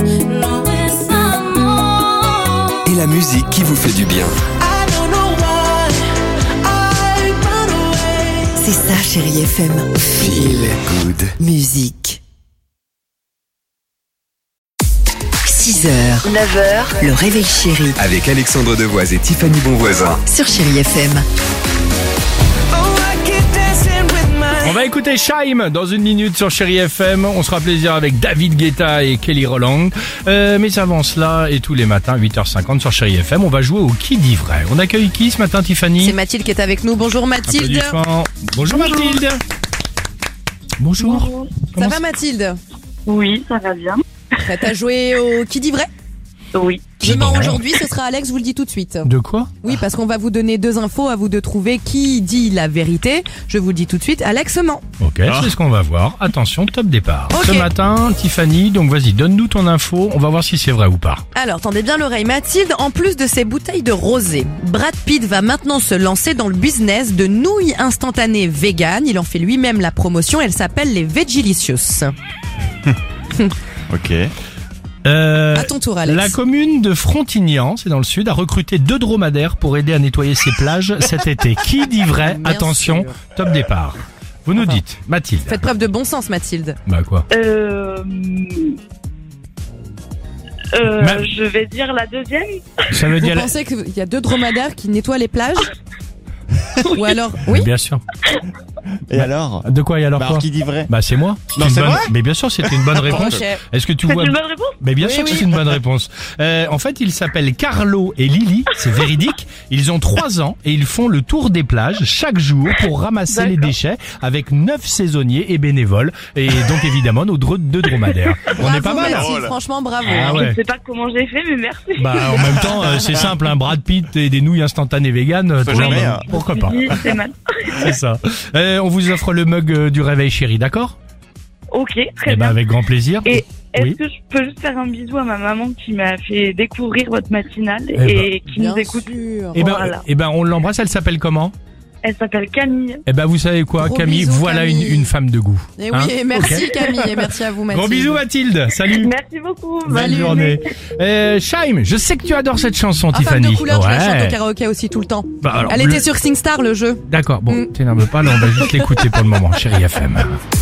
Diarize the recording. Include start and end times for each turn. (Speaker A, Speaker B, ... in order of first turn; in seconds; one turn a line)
Speaker A: 0.3-2.0
Speaker B: 2.9-4.4
Speaker A: 4.7-6.0
Speaker A: 6.7-8.4
Speaker C: 8.5-10.8
Speaker B: 10.2-11.3
Speaker C: 11.4-12.2
Speaker C: 15.4-18.0
Speaker B: 18.0-20.2
Speaker C: 20.2-21.2
Speaker A: 22.8-24.7
Speaker D: 24.6-36.2
Speaker E: 36.0-38.0
Speaker D: 37.5-39.4
Speaker D: 40.8-42.0
Speaker F: 41.0-41.6
Speaker E: 41.8-42.6
Speaker F: 43.1-44.0
Speaker E: 44.4-45.9
Speaker F: 46.5-47.0
Speaker E: 47.0-54.8
Speaker D: 47.0-47.6
Speaker D: 49.1-49.6
Speaker D: 55.0-61.2
Speaker G: 55.3-55.5
Speaker E: 57.3-57.7
Speaker E: 61.4-72.1
Speaker G: 73.9-74.3
Speaker D: 75.1-85.7
Speaker E: 75.5-76.4
Speaker E: 82.3-83.2
Speaker E: 85.5-86.8
Speaker D: 86.9-87.2
Speaker F: 87.3-88.8
Speaker F: 90.7-92.8
Speaker D: 90.9-91.3
Speaker D: 92.9-93.5
Speaker E: 93.2-95.7
Speaker E: 96.8-97.7
Speaker F: 96.8-97.1
Speaker D: 97.5-98.0
Speaker G: 99.1-100.9
Speaker D: 99.1-119.4
Speaker G: 101.5-103.4
Speaker E: 103.1-103.6
Speaker F: 104.1-104.8
Speaker E: 105.0-105.5
Speaker F: 113.3-113.7
Speaker G: 118.5-119.5
Speaker E: 118.6-120.4
Speaker D: 120.1-120.6
Speaker F: 120.1-122.8
Speaker D: 122.0-126.9
Speaker G: 122.8-123.2
Speaker G: 125.6-126.3
Speaker F: 125.7-127.9
Speaker D: 127.8-131.0
Speaker F: 131.7-132.6
Speaker D: 132.3-134.0
Speaker F: 133.2-140.1
Speaker D: 138.0-138.3
Speaker E: 138.5-139.6
Speaker D: 139.6-141.5
Speaker F: 142.0-143.0
Speaker D: 143.1-147.1
Speaker E: 143.8-145.1
Speaker E: 145.8-148.2
Speaker D: 147.7-149.1
Speaker F: 148.9-150.6
Speaker D: 149.9-154.4
Speaker E: 149.9-150.5
Speaker E: 153.1-157.7
Speaker D: 155.4-156.0
Speaker D: 157.1-160.4
Speaker E: 158.5-159.0